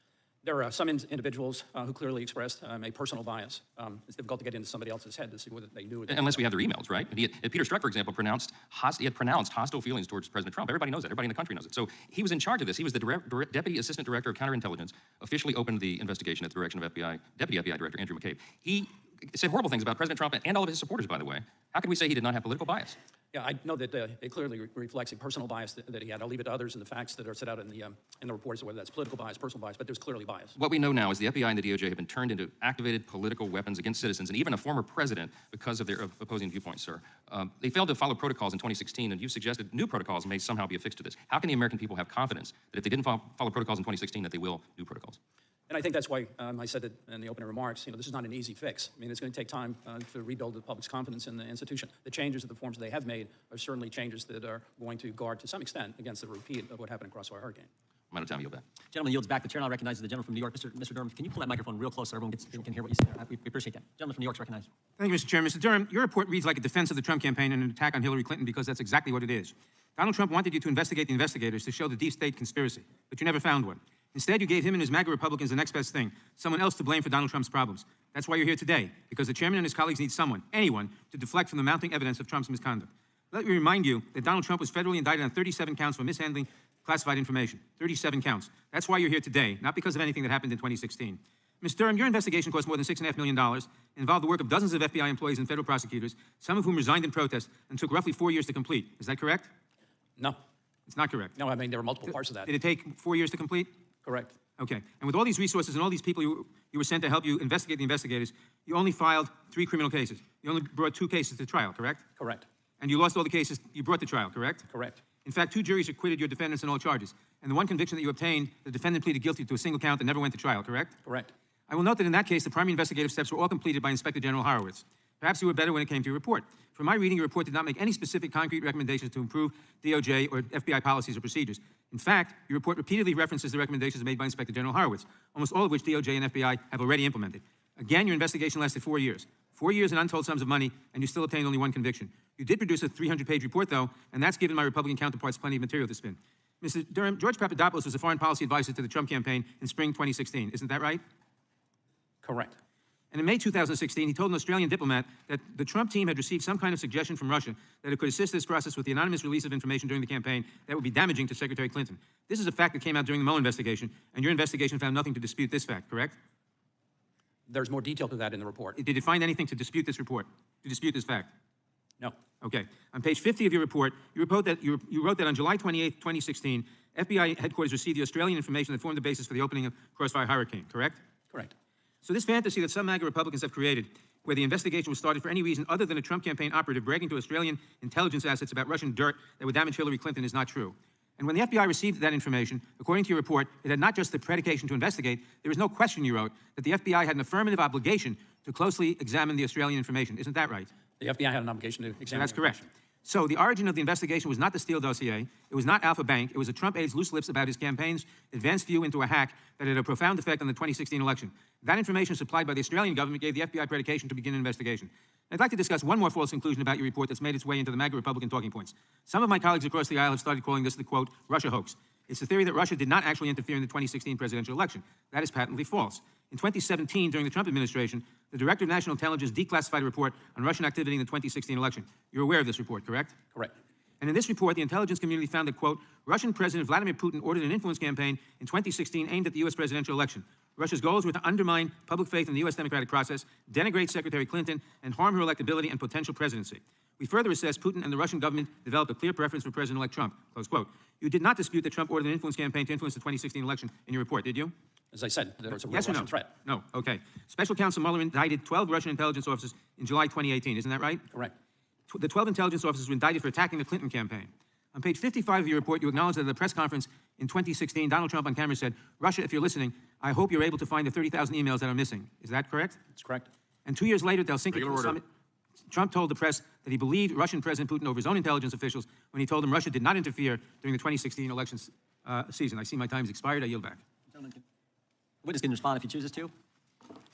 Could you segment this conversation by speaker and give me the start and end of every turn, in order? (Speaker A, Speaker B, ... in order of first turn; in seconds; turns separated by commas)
Speaker A: 0.4-6.5, Speaker B: 6.1-23.0, Speaker A: 23.3-30.6, Speaker B: 30.6-45.2, Speaker A: 45.7-57.7, Speaker B: 58.1-58.6, Speaker C: 58.9-64.7, Speaker D: 65.0-99.5, Speaker D: 100.9-101.3, Speaker A: 101.4-102.5, Speaker D: 102.5-103.7, Speaker A: 104.0-104.3, Speaker D: 104.6-112.0, Speaker A: 112.2-112.5, Speaker D: 112.8-114.7, Speaker A: 114.7-115.0, Speaker D: 115.2-120.9, Speaker A: 121.0-121.3, Speaker D: 121.7-151.0, Speaker A: 152.2-152.6, Speaker D: 153.1-166.2, Speaker A: 167.5-168.8, Speaker D: 168.8-171.3, Speaker D: 172.4-181.0, Speaker D: 182.0-200.7, Speaker A: 201.0-202.7, Speaker D: 202.1-233.2, Speaker D: 234.0-254.5, Speaker A: 254.9-256.3, Speaker D: 255.7-261.1, Speaker D: 261.9-272.8, Speaker A: 272.9-273.3, Speaker D: 273.7-275.0, Speaker D: 275.7-283.8, Speaker C: 284.1-284.4, Speaker C: 285.2-286.3